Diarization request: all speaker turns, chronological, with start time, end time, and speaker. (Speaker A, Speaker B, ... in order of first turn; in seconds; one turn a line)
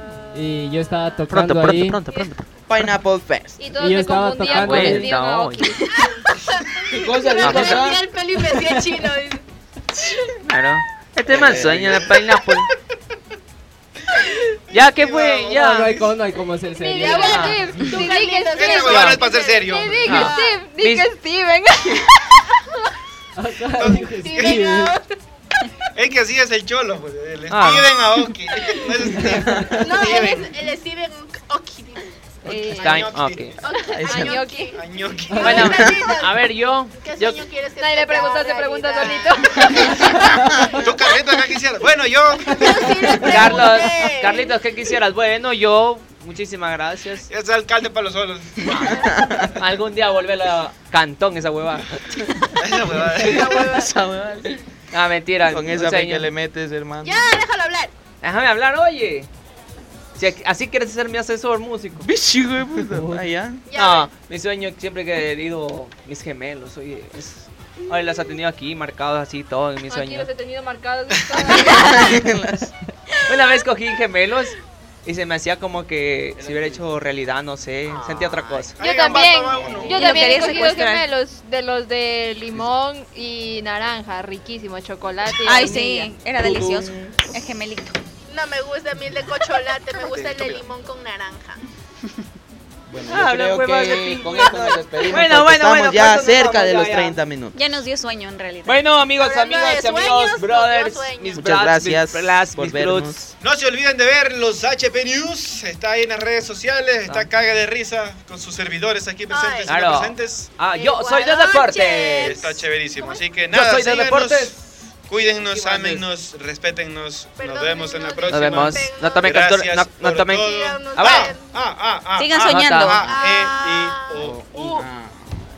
Speaker A: 0.3-2.0
Speaker B: 1.3-2.5
Speaker C: 2.7-3.7
Speaker D: 3.6-6.0
Speaker A: 3.8-5.1
Speaker B: 4.5-5.8
Speaker E: 5.9-9.4
Speaker C: 6.9-8.1
Speaker B: 7.4-7.9
Speaker B: 10.4-12.7
Speaker C: 11.3-12.1
Speaker B: 14.7-16.1
Speaker F: 14.9-15.6
Speaker A: 15.5-17.8
Speaker D: 16.8-22.8
Speaker E: 17.0-20.6
Speaker B: 17.2-17.6
Speaker F: 18.5-20.3
Speaker B: 20.1-21.1
Speaker A: 23.4-24.9
Speaker F: 23.8-24.7
Speaker E: 24.3-25.0
Speaker F: 25.9-30.5
Speaker B: 27.5-27.9
Speaker A: 29.3-29.7
Speaker E: 29.7-32.4
Speaker D: 32.4-33.1
Speaker F: 32.5-33.5
Speaker B: 32.8-33.5
Speaker E: 33.6-34.8
Speaker D: 33.7-34.8
Speaker C: 33.9-34.4
Speaker F: 34.7-35.6
Speaker A: 35.3-35.6
Speaker E: 35.4-36.4
Speaker B: 35.4-37.4
Speaker C: 35.6-36.1
Speaker E: 37.0-41.0
Speaker D: 37.8-40.4
Speaker F: 40.8-43.1
Speaker E: 42.5-44.6
Speaker B: 43.2-47.3
Speaker F: 47.3-49.0
Speaker B: 48.7-52.4
Speaker C: 49.1-49.5
Speaker F: 52.6-53.6
Speaker E: 53.2-54.0
Speaker C: 53.2-54.6
Speaker B: 54.9-56.3
Speaker C: 55.5-57.4
Speaker E: 57.0-57.9
Speaker B: 58.2-59.3
Speaker B: 60.2-62.1
Speaker C: 62.0-63.6
Speaker A: 62.9-63.2
Speaker E: 63.7-64.1
Speaker B: 63.7-70.3
Speaker D: 69.9-72.1
Speaker G: 71.7-72.2
Speaker C: 71.7-72.7
Speaker B: 73.3-78.8
Speaker C: 76.4-76.8
Speaker E: 77.9-78.6
Speaker F: 78.8-80.5
Speaker D: 78.8-86.1
Speaker C: 79.5-79.9
Speaker G: 79.8-81.1
Speaker G: 85.4-87.9
Speaker C: 86.4-87.1
Speaker E: 88.3-91.6
Speaker F: 90.0-90.7
Speaker C: 92.9-97.6
Speaker B: 93.1-97.2
Speaker G: 97.5-98.8
Speaker B: 98.7-103.3
Speaker E: 99.2-101.7
Speaker C: 101.4-103.2
Speaker F: 103.4-110.5
Speaker E: 109.3-109.8
Speaker B: 109.7-112.4
Speaker E: 110.7-113.2
Speaker F: 112.2-114.6
Speaker B: 113.5-114.6
Speaker F: 115.1-124.8
Speaker B: 115.4-116.0
Speaker E: 117.4-119.5
Speaker B: 118.3-121.3
Speaker E: 120.4-121.5
Speaker G: 122.2-123.1
Speaker B: 122.4-123.0
Speaker E: 123.0-124.8
Speaker C: 124.2-125.4